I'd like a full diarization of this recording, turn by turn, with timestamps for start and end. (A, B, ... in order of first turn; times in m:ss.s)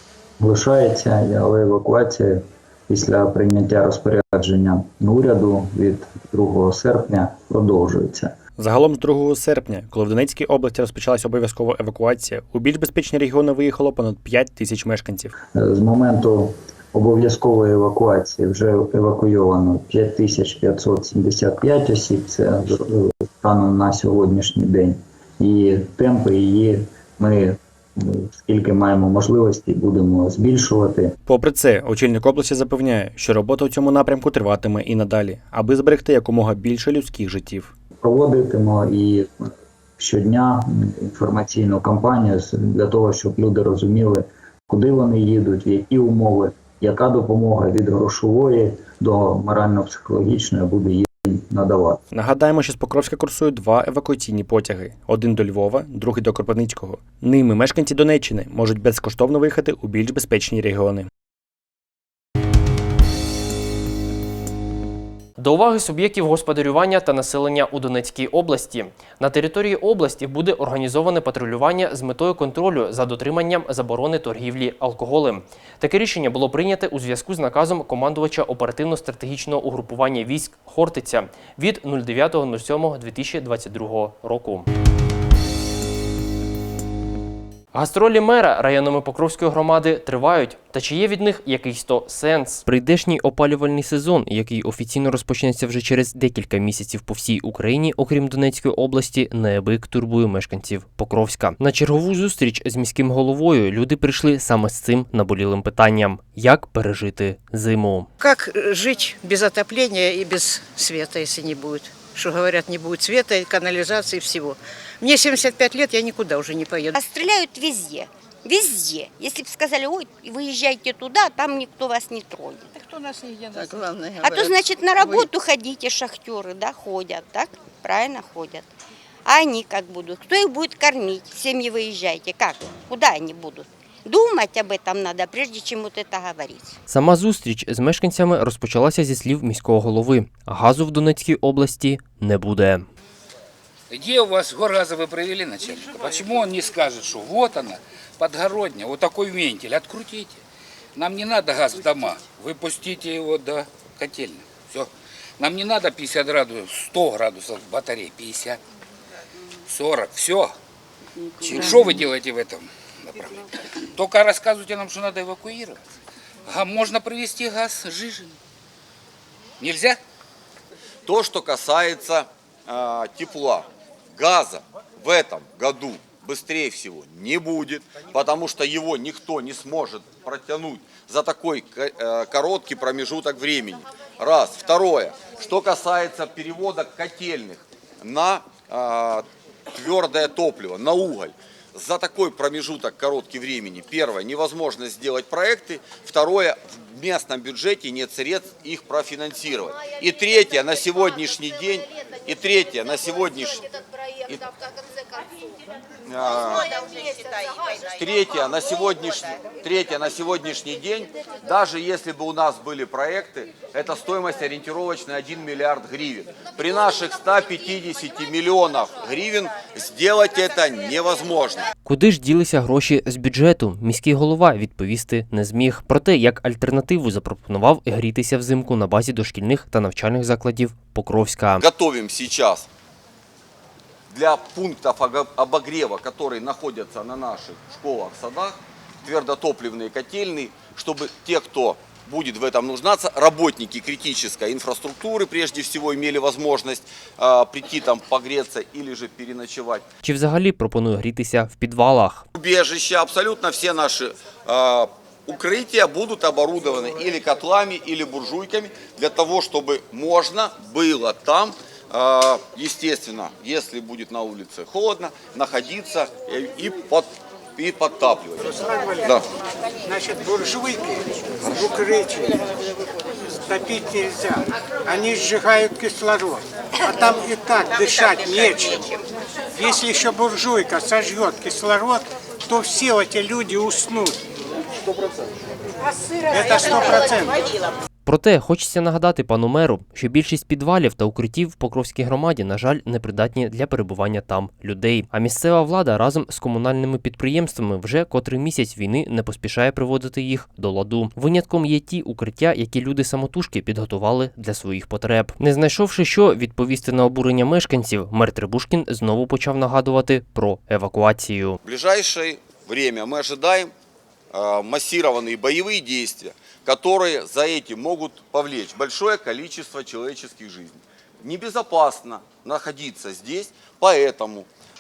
0:00.4-0:08.4 A
0:08.6-0:15.3 B
0:15.5-0:31.1 A
0:31.3-0:37.7 B
0:38.0-0:52.0 A
0:52.1-1:01.1 B
1:05.4-1:24.7 C
1:27.7-1:48.1 C
1:48.2-1:56.9 D
1:56.9-2:02.7 E
2:03.7-2:04.3 D
2:04.2-2:08.7 E
2:09.2-2:16.8 E
2:16.9-2:22.9 C
2:23.9-2:30.4 F
2:30.9-2:38.6 F
2:39.7-2:40.5 F
2:41.4-2:43.4 F
2:43.9-2:45.8 F
2:46.5-2:48.3 F
2:49.6-2:50.0 F
2:51.0-3:23.6 G
3:24.2-3:24.5 G
3:26.0-3:26.7 G
3:27.9-3:41.7 G
3:41.8-3:51.6 C
3:51.6-3:52.7 G
3:54.1-4:09.8 G
4:10.0-4:12.3 C
4:12.4-4:28.4 G
4:28.4-4:29.0 H
4:29.8-4:32.4 H
4:33.5-4:38.9 H
4:39.6-4:44.2 H
4:46.2-4:47.3 H
4:48.0-5:11.6 C
5:11.6-5:13.7 G
5:14.3-5:24.5 G